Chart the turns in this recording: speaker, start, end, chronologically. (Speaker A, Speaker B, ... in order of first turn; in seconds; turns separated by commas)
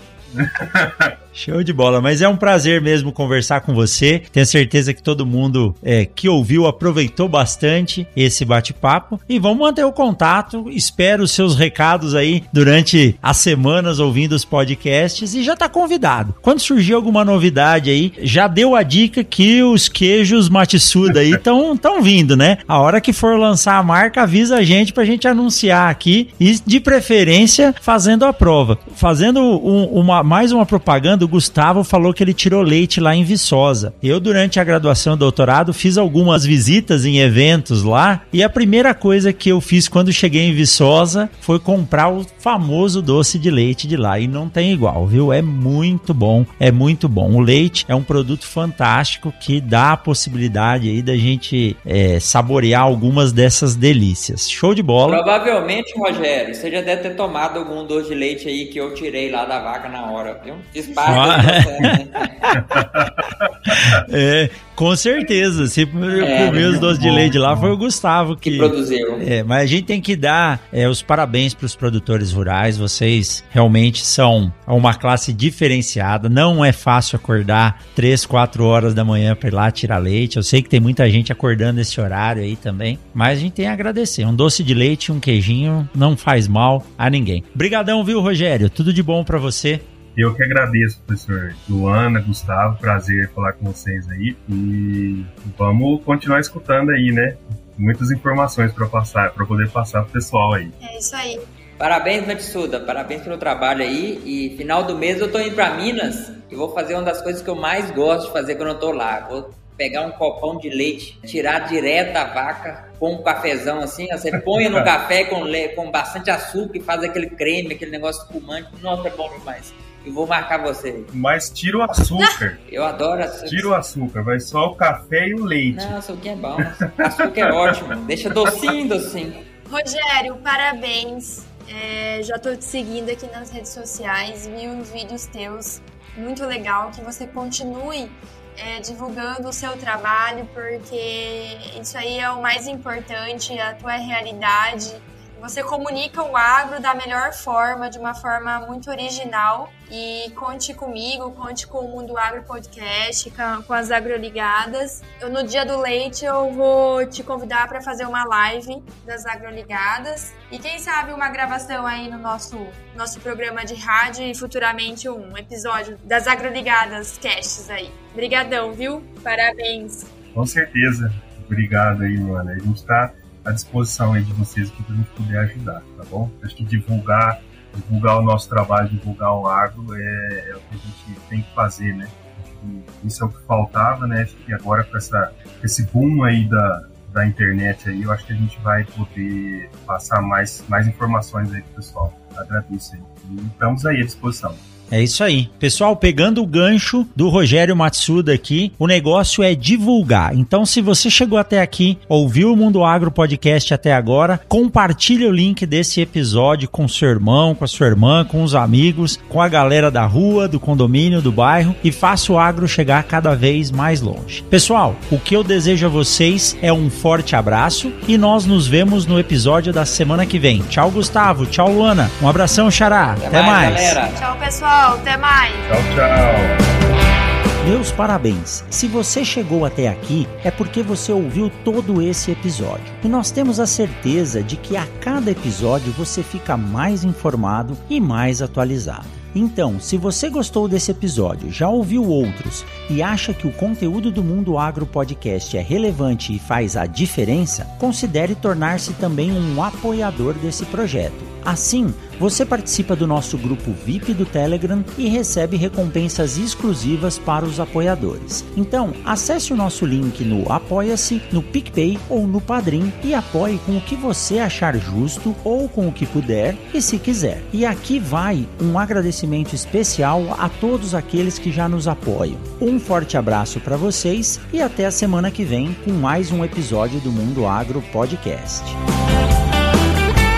Speaker A: 0.3-1.1, Speaker B: 1.3-55.2, Speaker C: 55.0-62.5, Speaker B: 61.0-61.9, Speaker A: 62.5-64.0, Speaker B: 63.7-89.9, Speaker C: 66.2-67.0, Speaker A: 66.2-67.7, Speaker C: 68.4-69.2, Speaker A: 90.1-100.7, Speaker D: 100.8-101.4, Speaker C: 101.8-121.1, Speaker A: 114.5-114.9, Speaker A: 121.1-122.6, Speaker C: 122.7-123.7, Speaker A: 123.5-126.0, Speaker C: 125.7-129.4, Speaker A: 127.1-127.7, Speaker A: 128.3-128.7, Speaker D: 129.7-170.1, Speaker A: 170.3-194.6, Speaker B: 194.9-224.0, Speaker C: 223.2-224.2, Speaker D: 224.1-225.7, Speaker A: 225.7-226.6, Speaker B: 227.6-278.8